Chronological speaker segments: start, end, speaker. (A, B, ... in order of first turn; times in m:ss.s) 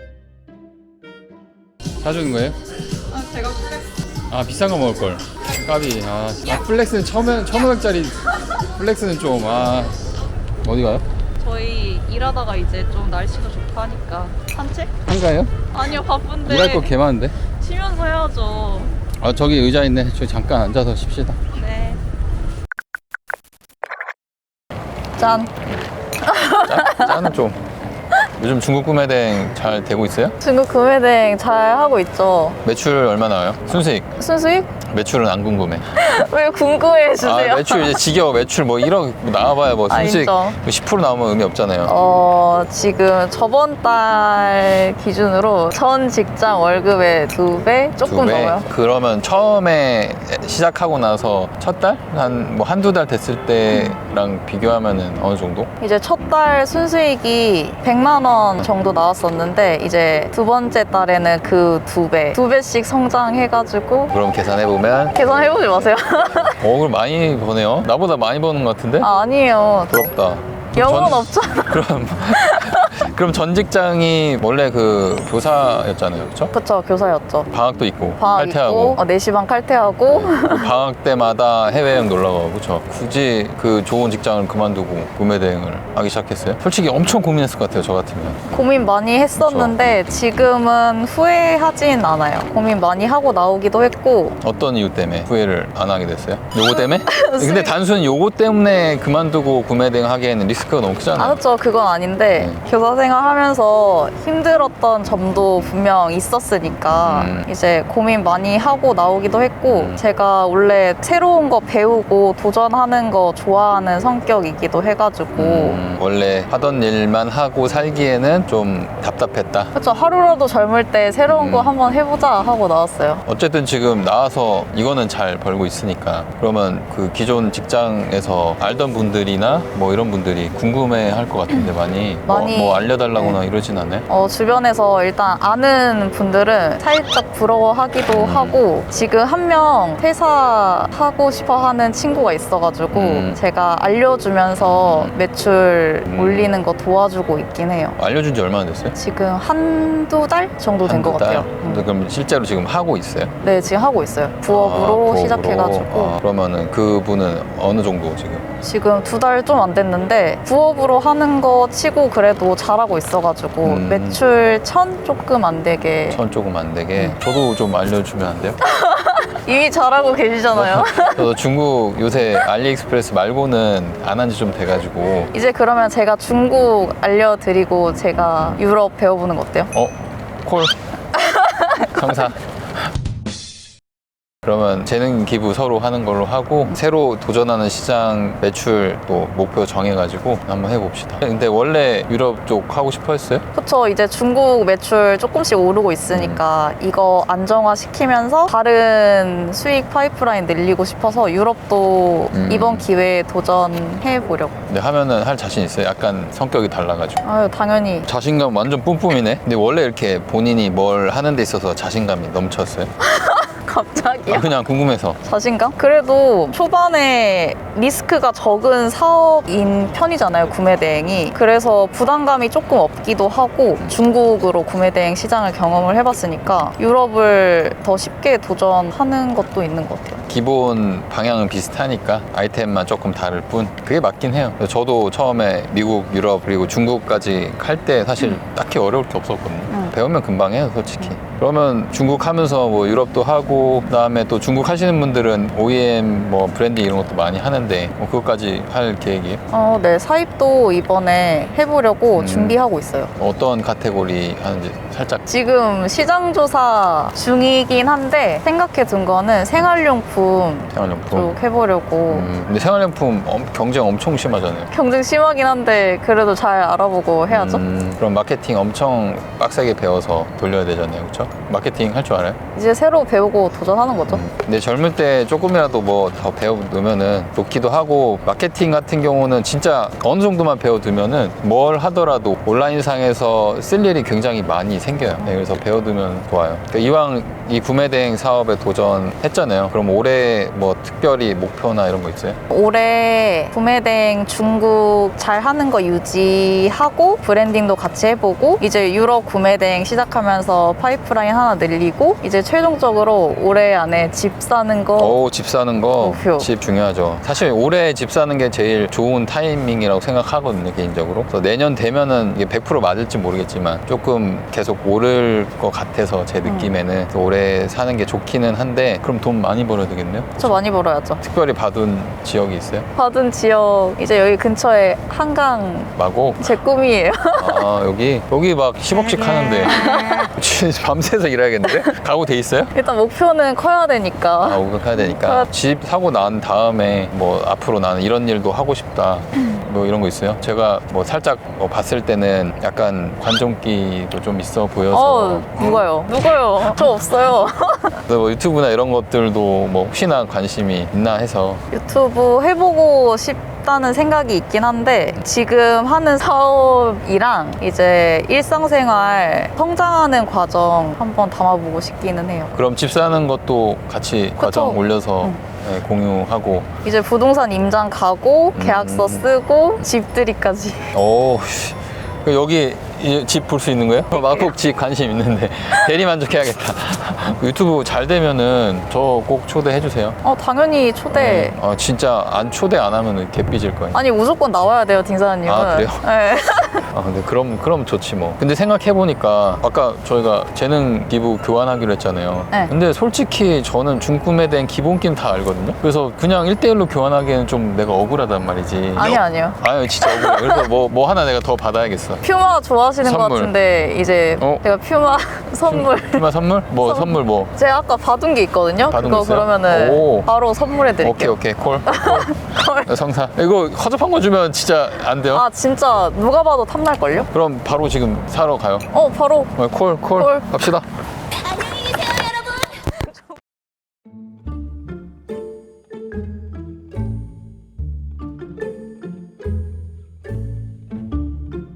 0:02.0-0:02.5 A
0:03.1-0:03.7 B
0:04.3-0:08.2 A
0:08.7-0:10.0 A
0:10.6-0:11.0 A
0:11.4-0:15.0 B
0:15.0-0:15.6 A
0:15.7-0:16.9 B
0:16.4-0:17.4 A
0:17.6-0:18.9 B
0:19.2-0:21.4 A
0:21.5-0:22.0 B
0:25.2-0:25.5 B
0:26.2-0:27.3 B
0:26.6-0:27.6 A
0:28.4-0:30.4 A
0:30.4-0:32.6 B
0:32.6-0:34.1 A
0:34.2-0:34.7 B
0:34.8-0:35.8 A
0:36.0-0:38.0 B
0:37.2-0:41.9 A
0:39.9-0:40.6 B
0:41.8-0:48.6 B
0:48.0-0:55.7 A
0:53.7-0:54.0 B
0:55.8-1:04.1 B
1:04.1-1:09.1 A
1:05.1-1:06.7 B
1:09.0-1:10.1 B
1:09.9-1:16.5 A
1:10.7-1:13.0 B
1:16.5-1:17.5 B
1:17.5-1:19.0 A
1:18.2-1:20.7 B
1:20.1-1:28.4 A
1:28.5-1:34.4 B
1:29.4-1:29.8 A
1:34.4-1:41.4 A
1:36.7-1:37.7 B
1:41.2-1:55.8 B
1:42.4-1:42.6 A
1:46.9-1:47.5 A
1:49.7-1:50.0 A
1:55.4-1:59.7 A
1:59.7-2:03.2 B
2:01.3-2:01.7 A
2:03.2-2:14.0 A
2:12.2-2:13.4 B
2:14.1-2:28.0 B
2:18.1-2:18.6 A
2:22.9-2:23.4 A
2:24.6-2:25.1 A
2:26.1-2:26.6 A
2:28.0-2:28.9 A
2:28.9-2:31.9 B
2:30.8-2:33.3 A
2:33.4-2:36.2 B
2:34.5-2:38.4 A
2:38.6-2:46.2 B
2:43.6-2:44.2 A
2:46.1-2:48.6 A
2:48.6-2:51.3 B
2:50.5-2:55.3 A
2:55.3-2:59.7 B
2:59.7-3:00.8 A
3:01.1-3:02.1 B
3:01.8-3:02.5 A
3:04.4-3:13.4 A
3:13.5-3:24.6 B
3:16.1-3:16.4 A
3:22.3-3:22.9 A
3:24.7-3:27.2 A
3:27.2-3:28.1 B
3:28.0-3:32.9 A
3:33.0-3:34.5 B
3:34.3-3:35.2 A
3:35.2-3:50.2 B
3:50.3-4:09.4 A
4:09.5-4:13.1 B
4:12.1-4:12.6 A
4:13.2-4:15.2 A
4:15.2-4:22.3 B
4:20.7-4:21.4 A
4:22.1-4:24.7 A
4:24.7-4:27.6 B
4:27.3-4:32.4 A
4:32.5-4:34.2 B
4:34.1-4:52.4 A
4:52.5-5:05.2 B
5:05.0-5:20.6 A
5:06.0-5:06.5 B
5:16.4-5:16.7 B
5:20.4-5:21.2 B
5:21.2-5:22.9 A
5:23.0-5:27.6 B
5:25.9-5:26.6 A
5:27.4-5:32.7 A
5:29.0-5:30.3 B
5:32.7-5:35.5 B
5:34.4-5:45.8 A
5:44.9-5:48.0 B
5:48.0-5:51.6 A
5:51.7-6:02.5 B
6:02.5-6:06.7 A
6:04.4-6:05.4 B
6:06.8-6:10.9 B
6:08.5-6:09.3 A
6:10.9-6:20.2 A
6:14.1-6:14.5 B
6:20.2-6:21.6 B
6:21.1-6:24.0 A
6:23.9-6:26.9 B
6:25.4-6:26.0 A
6:26.9-6:42.2 A
6:39.0-6:40.7 B
6:42.2-6:46.2 B
6:43.0-6:43.5 A
6:45.6-6:47.5 A
6:46.8-6:52.9 B
6:48.9-6:50.3 A
6:51.0-6:55.4 A
6:55.3-6:57.3 B
6:57.2-6:58.9 A
6:58.9-6:59.5 B
6:59.6-7:00.9 A
7:00.2-7:00.6 B
7:01.4-7:02.5 B